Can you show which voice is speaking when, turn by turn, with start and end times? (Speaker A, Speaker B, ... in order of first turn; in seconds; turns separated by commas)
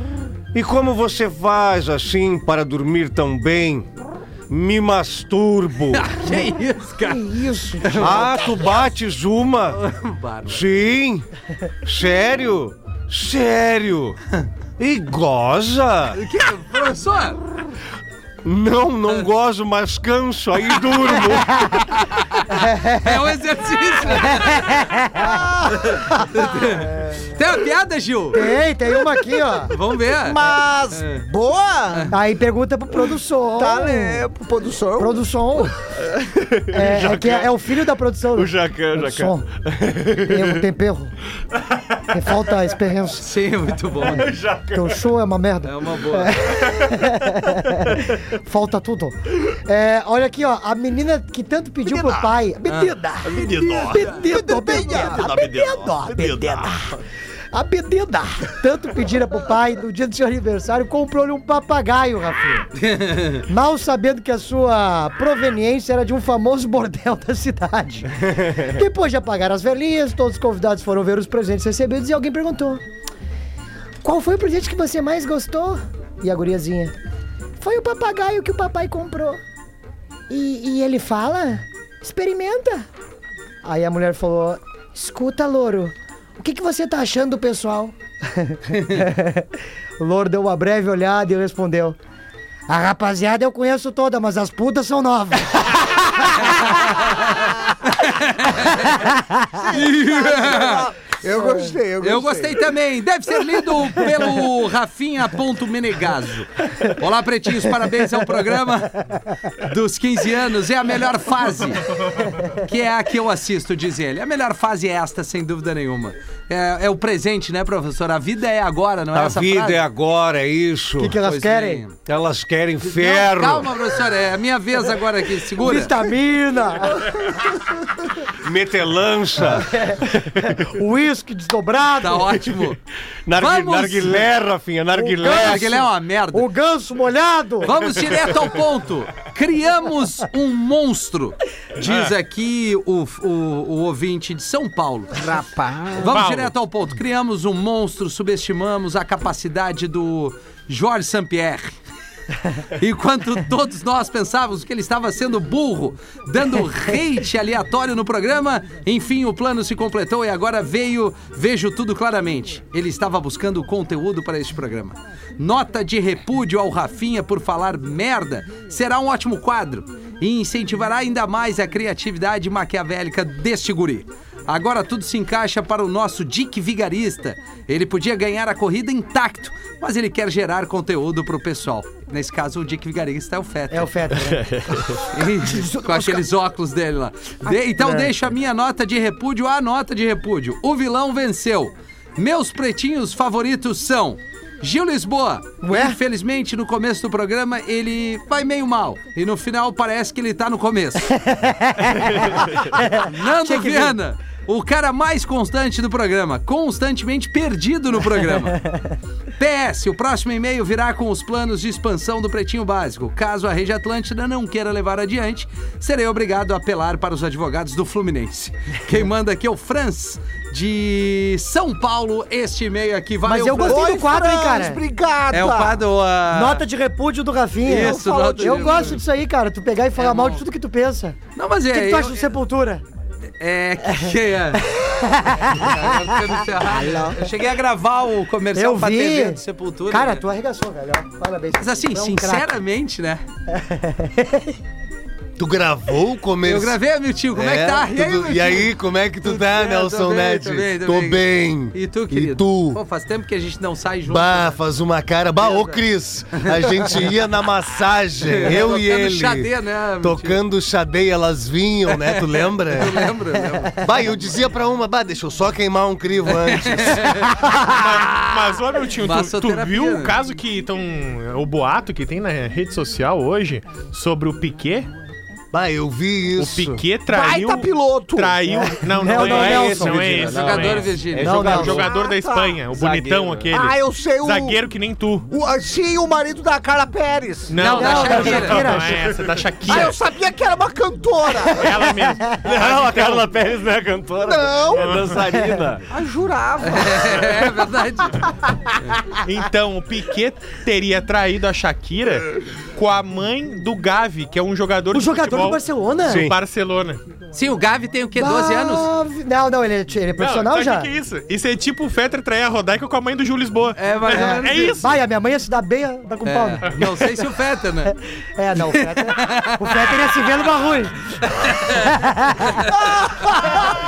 Speaker A: 0.5-3.9, Speaker A: 4.5-6.1, Speaker B: 5.9-8.8, Speaker C: 7.0-8.4, Speaker A: 8.0-9.8, Speaker B: 9.7-10.6, Speaker A: 10.4-11.3, Speaker A: 11.8-14.2, Speaker A: 14.8-16.2, Speaker B: 16.1-17.4, Speaker A: 18.4-21.8, Speaker B: 22.0-24.9, Speaker C: 22.5-23.2, Speaker C: 24.1-25.2, Speaker D: 25.2-26.0, Speaker B: 25.7-28.5, Speaker C: 28.3-29.7, Speaker B: 29.7-31.2, Speaker D: 30.1-32.1, Speaker C: 32.1-34.2, Speaker D: 33.6-35.3, Speaker C: 35.0-35.7, Speaker A: 36.1-37.5, Speaker C: 36.7-39.5, Speaker A: 38.3-40.6, Speaker C: 40.3-41.1, Speaker C: 42.1-43.2, Speaker B: 43.2-44.4, Speaker A: 44.3-45.0, Speaker C: 44.7-57.0, Speaker B: 45.6-46.4, Speaker D: 51.9-52.2, Speaker B: 52.7-52.9, Speaker A: 53.3-53.9, Speaker D: 53.6-55.4, Speaker A: 55.2-56.7, Speaker C: 57.5-62.7, Speaker B: 62.8-63.4, Speaker C: 63.5-72.8, Speaker C: 74.0-76.9, Speaker C: 77.6-79.4, Speaker C: 80.3-82.9, Speaker C: 83.6-92.0, Speaker C: 92.7-97.4, Speaker B: 97.0-99.1, Speaker C: 98.9-99.5, Speaker D: 99.5-102.7, Speaker B: 99.7-100.9, Speaker B: 102.0-109.0, Speaker B: 109.6-111.9, Speaker B: 112.5-119.8, Speaker A: 119.1-121.2, Speaker C: 121.0-121.8, Speaker B: 121.2-122.0, Speaker A: 122.0-123.7, Speaker B: 122.8-126.0, Speaker C: 125.6-127.3, Speaker A: 128.4-130.5, Speaker C: 129.7-132.4, Speaker B: 132.0-132.8, Speaker A: 133.2-135.8, Speaker B: 133.4-134.3, Speaker C: 134.9-137.9, Speaker B: 135.2-136.5, Speaker B: 137.6-145.2, Speaker E: 141.8-142.1, Speaker D: 145.2-146.1, Speaker B: 146.0-151.7, Speaker E: 146.1-146.5, Speaker B: 152.8-183.9, Speaker C: 183.7-186.2, Speaker A: 184.3-185.0, Speaker B: 185.1-201.1, Speaker C: 187.5-188.1, Speaker C: 195.6-196.0, Speaker C: 201.2-203.9, Speaker B: 202.8-208.6, Speaker B: 209.4-224.0, Speaker C: 223.2-224.8, Speaker D: 223.6-225.8, Speaker B: 225.3-226.6, Speaker C: 226.3-231.2, Speaker B: 227.6-229.0, Speaker D: 227.7-229.0, Speaker B: 229.9-230.4, Speaker B: 231.4-232.3, Speaker C: 231.7-232.8, Speaker B: 233.4-234.7, Speaker C: 234.7-236.0, Speaker B: 235.4-240.2, Speaker D: 236.6-237.2, Speaker C: 238.5-242.5, Speaker B: 241.6-243.2, Speaker C: 243.5-244.5, Speaker A: 245.4-246.8, Speaker B: 246.4-248.7, Speaker A: 247.3-252.8, Speaker B: 249.2-254.6, Speaker A: 254.1-259.5, Speaker B: 255.4-255.8, Speaker B: 256.3-257.0, Speaker B: 258.2-260.4, Speaker A: 260.0-263.1, Speaker B: 261.9-263.8, Speaker A: 263.7-267.5, Speaker B: 266.3-267.4, Speaker E: 267.6-274.9, Speaker B: 269.0-270.2, Speaker A: 275.5-276.8, Speaker E: 276.4-285.3, Speaker D: 277.1-278.7, Speaker C: 278.9-280.1, Speaker A: 279.1-281.9, Speaker B: 280.2-281.5, Speaker C: 281.2-281.8, Speaker D: 281.7-282.6, Speaker A: 282.7-283.5, Speaker D: 283.5-284.6, Speaker D: 285.3-288.1, Speaker E: 287.5-290.0, Speaker B: 287.6-288.7, Speaker C: 287.6-289.0, Speaker D: 289.6-291.7, Speaker E: 291.4-293.2, Speaker A: 292.4-295.8, Speaker D: 294.2-295.0, Speaker E: 294.7-295.2, Speaker D: 295.9-297.5, Speaker B: 296.6-298.3, Speaker E: 299.2-307.0, Speaker C: 304.9-306.2, Speaker A: 306.0-306.4, Speaker B: 307.4-308.9, Speaker C: 308.1-310.9, Speaker E: 310.2-315.0, Speaker B: 313.8-314.9, Speaker C: 314.1-317.2, Speaker B: 316.2-317.9, Speaker C: 318.4-320.9, Speaker B: 318.6-319.9, Speaker B: 321.3-321.9, Speaker C: 321.7-322.7, Speaker B: 322.6-323.7